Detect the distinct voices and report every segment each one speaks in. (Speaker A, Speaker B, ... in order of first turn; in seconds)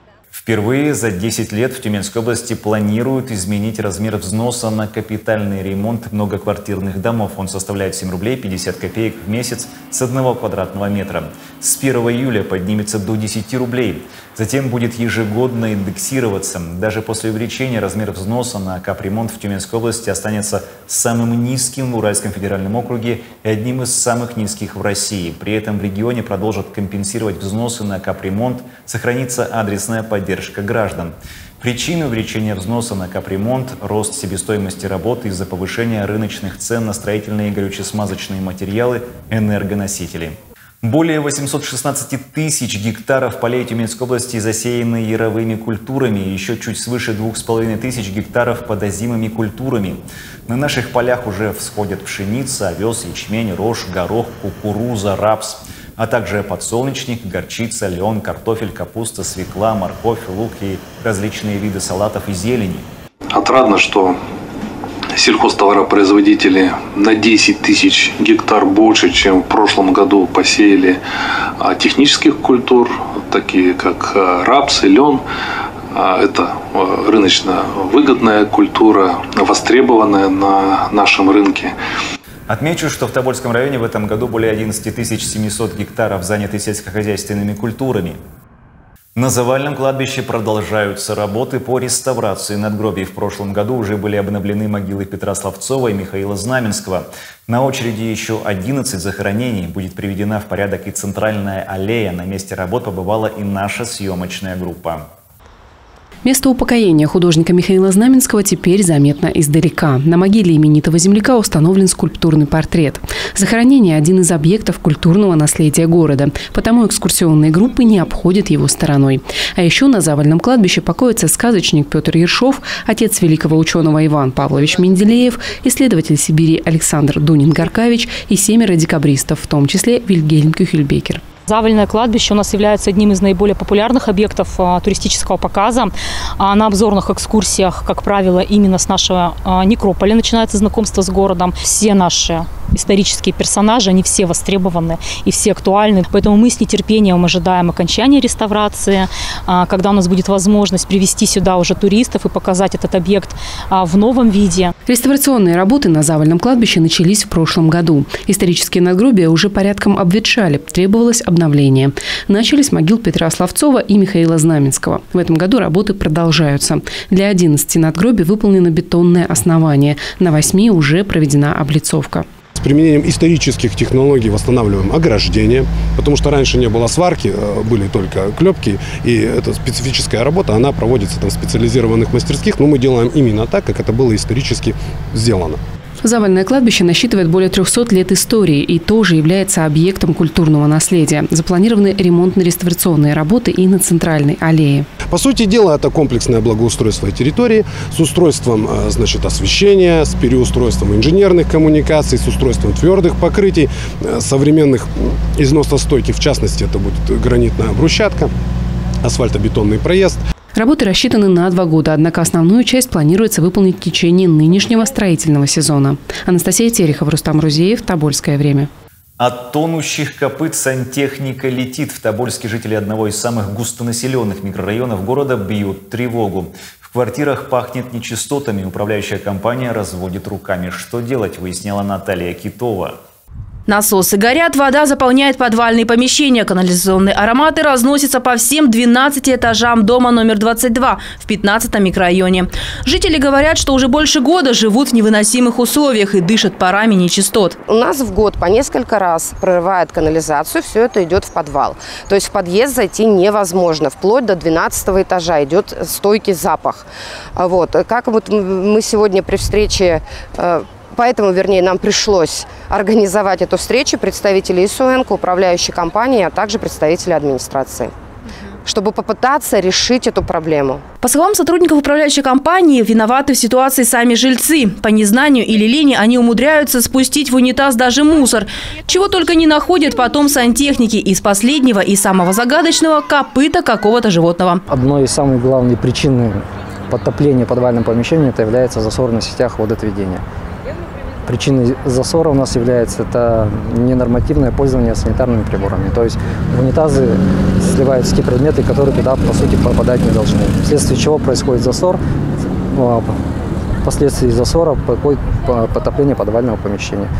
Speaker A: 0.3-62.9, 82.5-88.2, 89.2-105.0, 219.2-233.0
Speaker B: 63.3-64.2, 65.1-71.0, 71.6-75.2, 75.9-81.7
Speaker C: 106.2-131.2, 154.8-172.2, 186.0-194.8, 210.5-218.7
Speaker D: 131.5-154.7
Speaker E: 172.6-185.6, 195.1-208.3, 209.0-210.2
Speaker F: 233.7-247.5, 271.0-284.6
Speaker G: 247.7-267.9, 268.6-270.8
Speaker H: 284.7-286.4, 286.9-290.2, 291.2-302.0, 302.7-303.1, 303.8-307.1